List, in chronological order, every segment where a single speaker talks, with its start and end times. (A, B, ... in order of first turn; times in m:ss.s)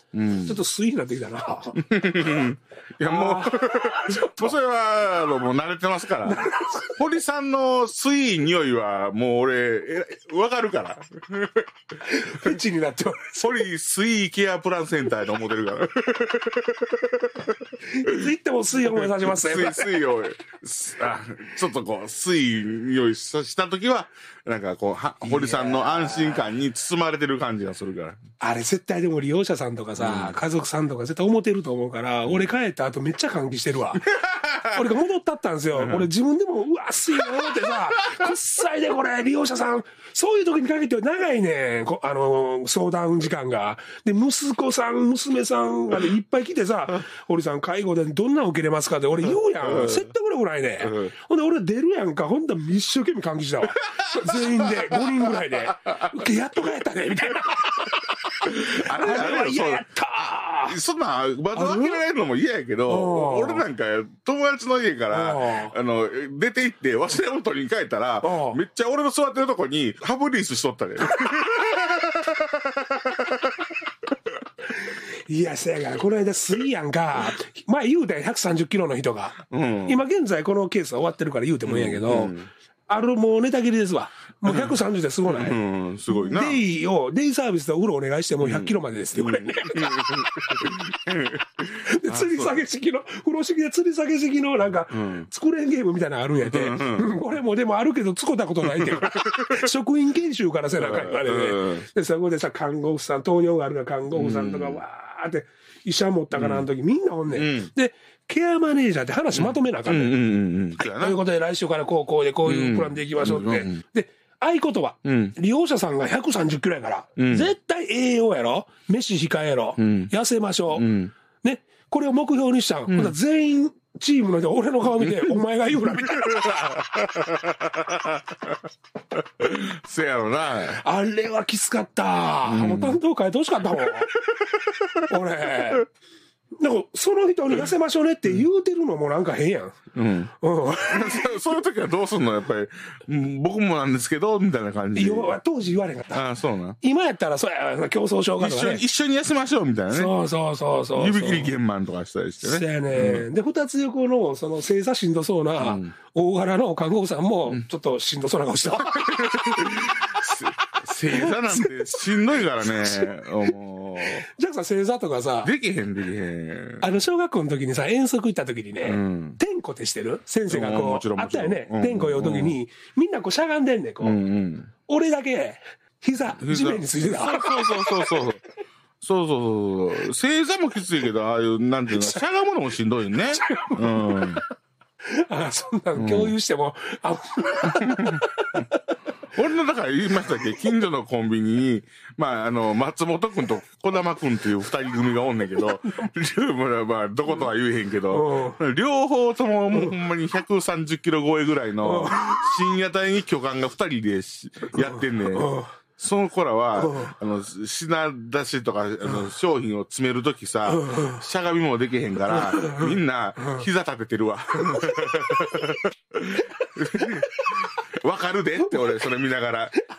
0:00.1-0:00.6 A
0:00.4-0:01.8 B
0:01.7-0:11.6 A
0:03.0-0:04.5 B
0:06.2-0:07.0 B
0:12.0-0:13.5 B
0:13.4-0:18.1 A
0:17.9-0:20.0 B
0:18.8-0:28.2 A
0:25.2-0:26.4 B
0:28.4-0:34.0 B
0:30.0-0:30.4 A
0:34.0-0:34.9 A
0:34.7-1:00.8 B
0:35.8-0:36.1 A
0:37.1-0:38.3 A
0:49.6-0:50.1 A
0:50.8-0:51.1 A
0:53.9-0:55.3 A
0:58.4-0:59.9 A
1:00.6-1:13.7 A
1:01.5-1:02.0 B
1:02.9-1:03.6 B
1:05.1-1:05.7 B
1:08.2-1:08.6 B
1:14.7-1:22.3 B
1:19.5-1:20.0 A
1:21.6-1:22.5 A
1:22.9-1:25.6 B
1:24.5-1:24.8 A
1:25.3-1:26.6 A
1:26.1-1:30.3 B
1:28.4-1:32.6 A
1:31.8-1:50.1 B
1:34.9-1:35.3 A
1:36.4-1:37.2 A
1:38.6-1:39.6 A
1:40.8-1:41.8 A
1:44.1-1:44.8 A
1:46.3-1:46.7 A
1:47.3-1:47.7 A
1:49.3-1:51.2 A
1:50.8-2:00.9 B
1:52.4-1:53.8 A
1:55.0-1:55.3 A
1:57.2-1:57.5 A
1:59.8-2:00.1 A
2:00.7-2:01.1 A
2:01.4-2:06.8 B
2:02.9-2:03.2 A
2:05.0-2:05.4 A
2:06.0-2:08.5 A
2:09.4-2:10.8 A
2:10.7-2:14.1 B
2:12.4-2:13.0 A
2:13.8-2:15.0 A
2:15.0-2:15.8 B
2:16.6-2:19.8 B
2:19.9-2:25.4 A
2:20.4-2:21.4 B
2:24.9-2:26.2 B
2:26.1-2:26.8 A
2:26.8-2:28.8 B
2:28.4-2:30.1 A
2:29.9-2:31.5 B
2:30.9-2:33.3 A
2:32.4-2:40.2 B
2:35.6-2:35.9 A
2:38.8-2:44.2 A
2:41.1-2:43.1 B
2:44.0-2:45.5 B
2:45.4-2:46.9 A
2:46.8-2:54.2 B
2:48.8-2:49.4 A
2:50.5-2:52.6 A
2:54.0-2:54.7 A
2:54.8-2:58.2 B
2:56.4-2:58.4 A
2:59.0-3:04.4 A
3:02.0-3:02.2 B
3:03.3-3:04.4 B
3:05.1-3:08.8 B
3:06.0-3:06.3 A
3:07.6-3:08.6 A
3:09.3-3:39.8 A
3:18.1-3:18.6 B
3:21.8-3:22.3 B
3:24.8-3:25.7 B
3:26.8-3:27.1 B
3:30.7-3:31.2 B
3:32.3-3:33.6 B
3:34.6-3:34.8 B
3:36.9-3:37.2 B